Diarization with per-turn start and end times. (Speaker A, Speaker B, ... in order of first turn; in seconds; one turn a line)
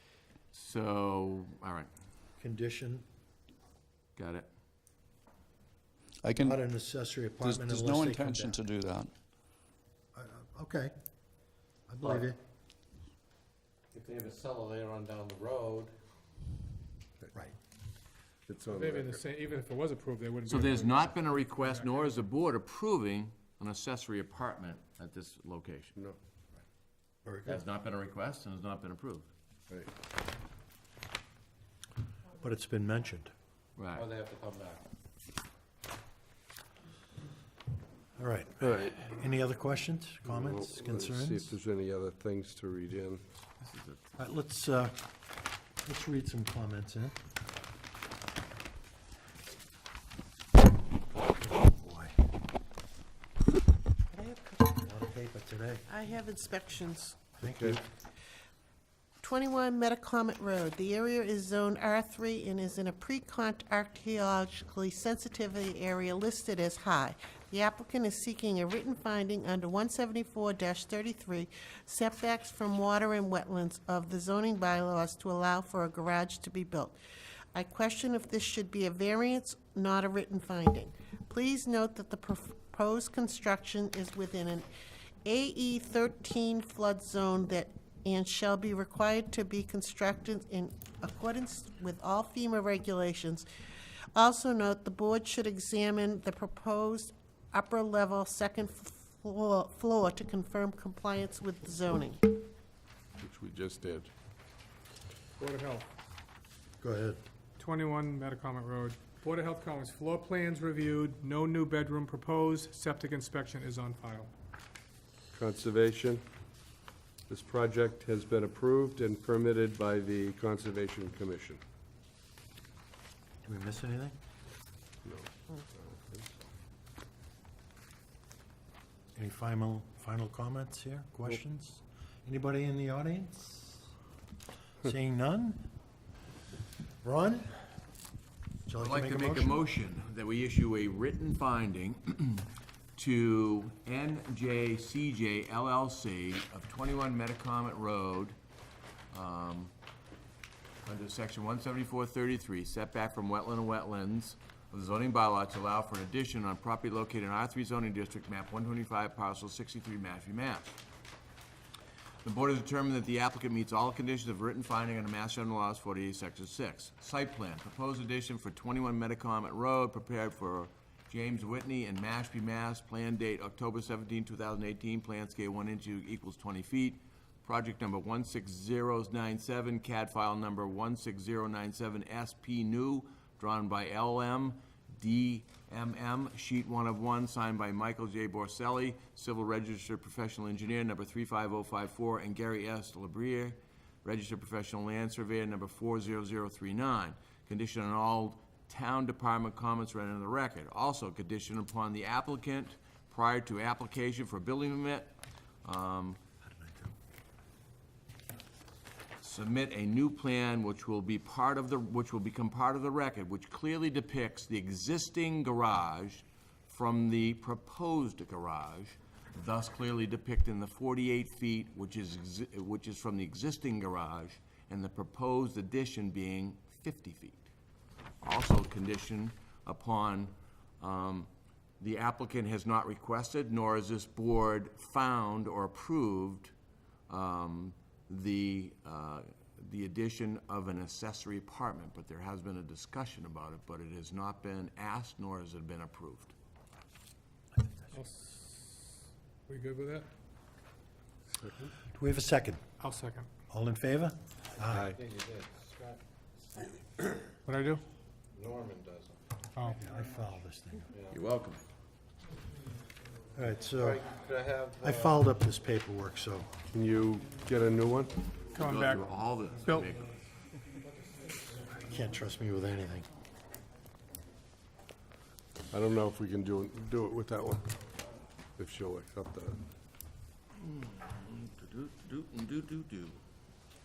Speaker A: 0.5-1.9
Speaker B: 2.4-3.0
Speaker A: 4.2-4.5
Speaker C: 6.2-6.5
Speaker B: 6.3-8.6
Speaker C: 7.4-9.1
Speaker B: 10.1-10.9
Speaker B: 11.9-12.4
Speaker D: 13.9-15.9
Speaker E: 18.5-19.2
Speaker F: 18.6-22.2
Speaker A: 20.5-25.9
Speaker B: 27.2-27.6
Speaker A: 27.4-29.3
Speaker B: 32.4-33.3
Speaker A: 33.8-34.1
Speaker D: 34.0-34.8
Speaker B: 38.2-41.5
Speaker E: 38.6-39.0
Speaker E: 40.3-43.3
Speaker A: 43.6-44.0
Speaker B: 44.2-45.0
Speaker B: 45.8-47.1
Speaker B: 51.4-52.1
Speaker G: 54.1-54.7
Speaker B: 54.7-55.8
Speaker G: 55.9-57.3
Speaker B: 57.4-57.8
Speaker E: 57.5-57.8
Speaker G: 59.2-77.0
Speaker G: 77.5-84.7
Speaker G: 85.2-93.5
Speaker G: 94.2-102.2
Speaker E: 103.2-104.1
Speaker F: 105.4-105.9
Speaker B: 106.8-107.2
Speaker F: 107.6-114.3
Speaker E: 115.3-116.2
Speaker E: 117.3-121.6
Speaker B: 123.4-124.2
Speaker E: 125.0-126.3
Speaker B: 129.2-133.8
Speaker B: 134.8-135.7
Speaker B: 137.0-137.6
Speaker B: 138.7-139.6
Speaker A: 138.8-148.4
Speaker A: 149.1-149.7
Speaker A: 150.8-160.8
Speaker A: 162.2-206.2
Speaker B: 206.4-206.9
Speaker A: 209.2-227.5
Speaker A: 228.2-236.5
Speaker A: 237.1-246.3
Speaker F: 247.9-248.7
Speaker F: 249.5-250.1
Speaker E: 251.4-251.7
Speaker B: 251.9-252.6
Speaker F: 252.8-253.3
Speaker B: 253.5-254.9
Speaker E: 254.7-255.0
Speaker D: 255.0-256.0
Speaker F: 257.4-257.8
Speaker D: 258.4-259.1
Speaker B: 259.7-260.9
Speaker D: 260.9-261.2
Speaker A: 261.1-261.6
Speaker B: 263.4-264.1
Speaker D: 263.8-265.1
Speaker B: 264.8-266.5
Speaker E: 266.7-268.3
Speaker F: 268.5-269.1
Speaker A: 268.5-270.2
Speaker F: 269.6-270.0
Speaker B: 271.8-273.1
Speaker E: 275.7-277.7
Speaker E: 278.6-279.6
Speaker A: 280.6-283.2